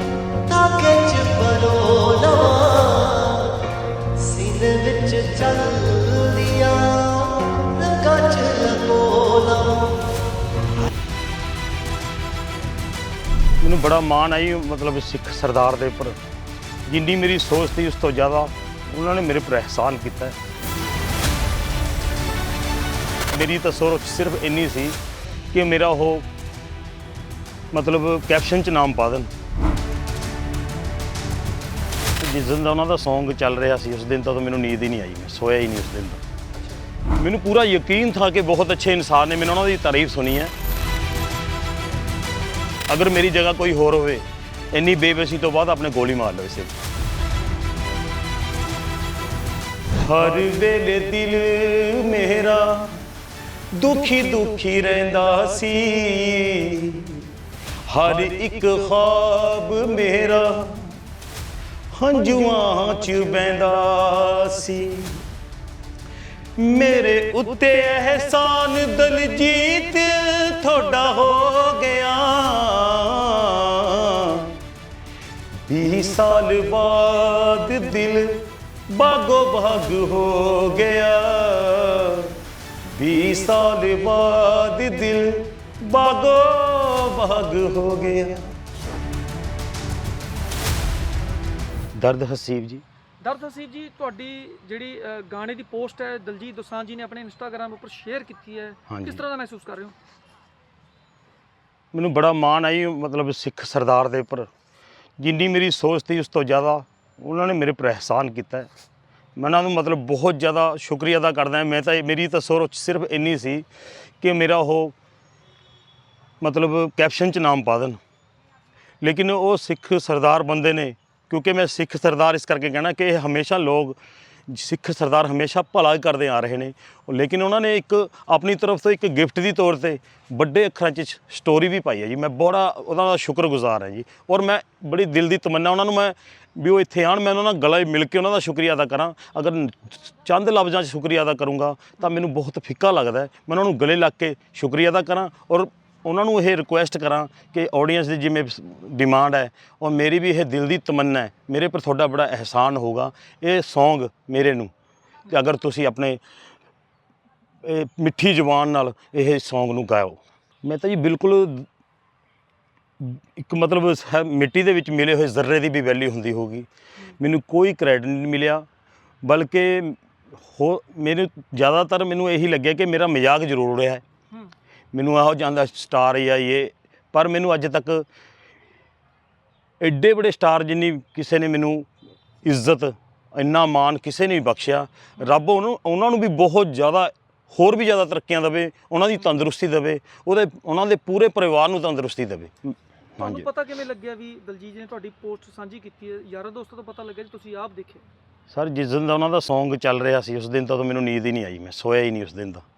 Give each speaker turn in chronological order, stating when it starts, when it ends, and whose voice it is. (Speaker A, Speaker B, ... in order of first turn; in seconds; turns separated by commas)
Speaker A: 0.4-3.4, Speaker A: 4.2-9.9, Speaker B: 13.6-16.2, Speaker B: 16.9-20.4, Speaker B: 23.3-25.0, Speaker B: 25.5-26.3, Speaker B: 27.7-29.3, Speaker B: 32.2-36.2, Speaker B: 37.1-40.5, Speaker B: 42.9-46.8, Speaker B: 49.9-53.0, Speaker B: 53.7-57.3, Speaker B: 57.9-61.0, Speaker B: 61.9-65.2, Speaker B: 66.6-74.6, Speaker B: 75.7-88.5, Speaker B: 91.9-92.8, Speaker C: 93.2-98.6, Speaker A: 93.6-96.3, Speaker A: 98.6-99.2, Speaker B: 98.9-99.2, Speaker C: 99.3-99.9, Speaker B: 101.9-104.5, Speaker B: 105.2-108.7, Speaker B: 109.4-113.7, Speaker B: 114.2-115.0, Speaker B: 116.4-118.0, Speaker B: 119.0-124.0, Speaker B: 124.5-154.7, Speaker B: 155.3-156.2, Speaker B: 157.6-161.7, Speaker B: 163.0-166.7, Speaker B: 167.2-168.7, Speaker B: 169.2-174.0, Speaker B: 174.9-178.1, Speaker B: 179.8-181.9, Speaker B: 182.4-193.5, Speaker A: 193.2-193.8, Speaker C: 193.5-198.0, Speaker B: 198.5-202.6